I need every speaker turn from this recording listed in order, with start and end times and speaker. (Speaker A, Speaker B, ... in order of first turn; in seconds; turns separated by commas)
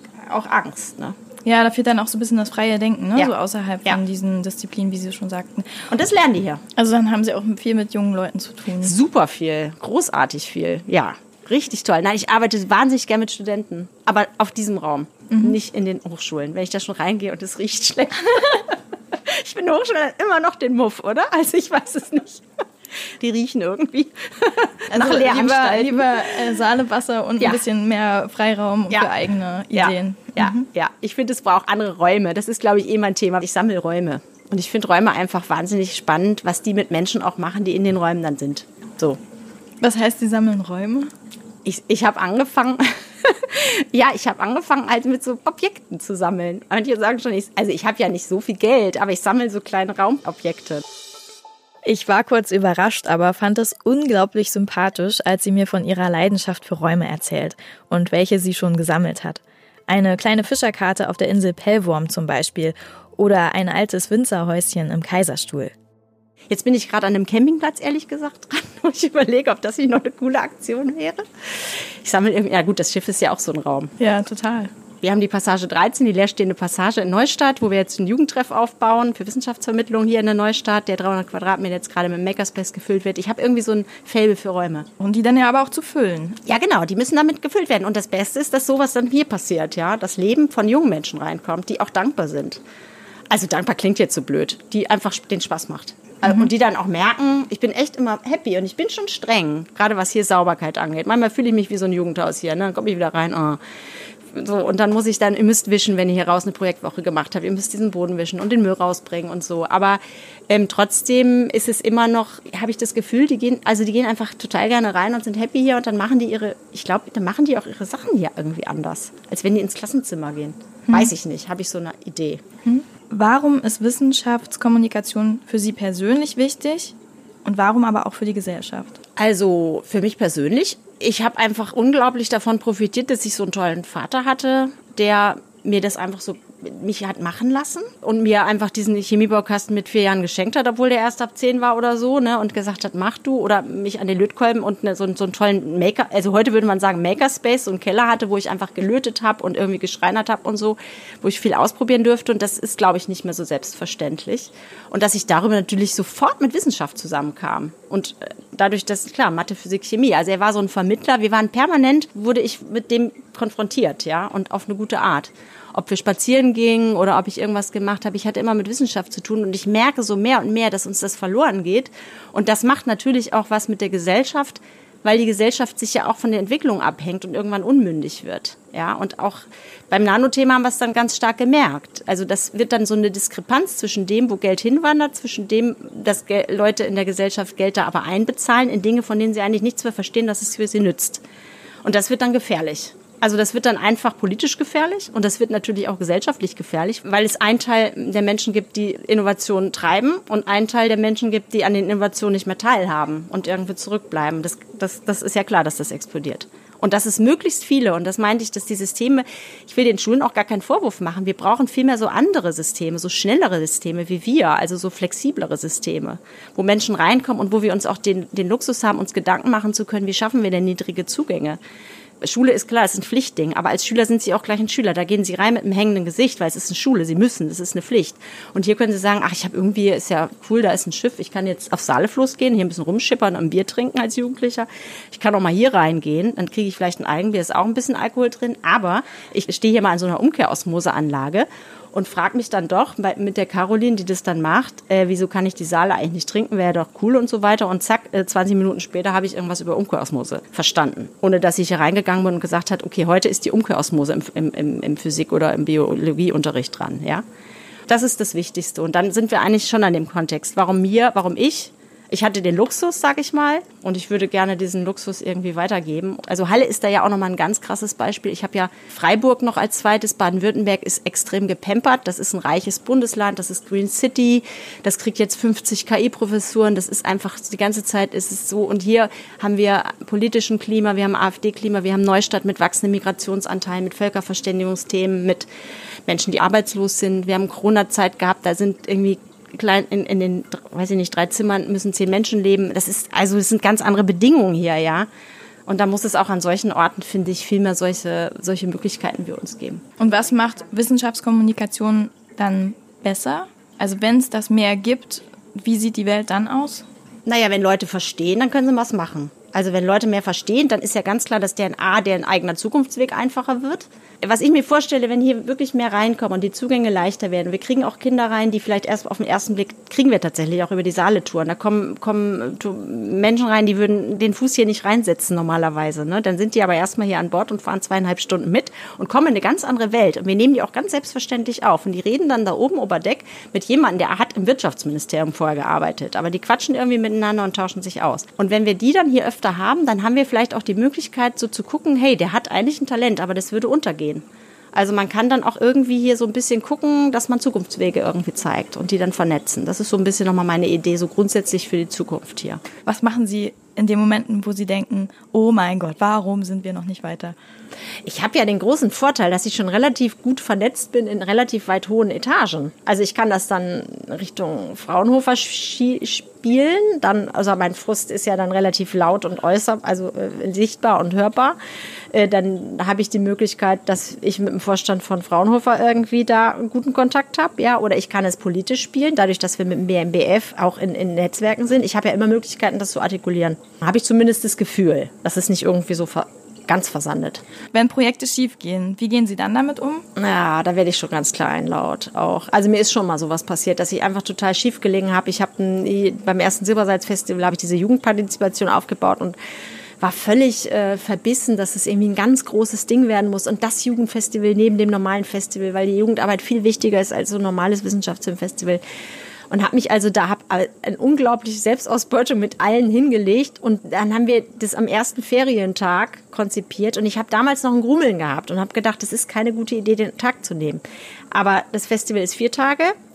Speaker A: 0.2-1.2, Speaker B: 1.4-5.8, Speaker A: 5.9-6.6, Speaker B: 6.8-8.9, Speaker A: 8.8-26.5, Speaker B: 15.3-15.6, Speaker B: 24.9-30.6, Speaker A: 29.7-39.2, Speaker B: 39.8-41.1, Speaker A: 41.6-50.8, Speaker C: 51.8-65.7, Speaker A: 66.5-73.9, Speaker B: 74.0-74.7, Speaker A: 75.0-84.9, Speaker B: 85.0-86.4, Speaker A: 86.4-92.6, Speaker A: 93.3-103.6, Speaker A: 104.3-122.4, Speaker B: 120.9-121.1, Speaker B: 122.6-126.9, Speaker B: 127.4-129.0, Speaker A: 129.2-191.2, Speaker A: 191.8-221.6, Speaker A: 222.2-257.2, Speaker A: 257.9-285.5, Speaker A: 286.1-295.1, Speaker A: 295.6-299.8, Speaker B: 300.0-306.8, Speaker A: 307.2-352.6, Speaker B: 352.8-357.3, Speaker A: 358.0-371.6, Speaker A: 372.1-387.4, Speaker B: 387.7-390.1, Speaker A: 390.1-399.4, Speaker A: 400.0-408.8, Speaker A: 409.5-422.9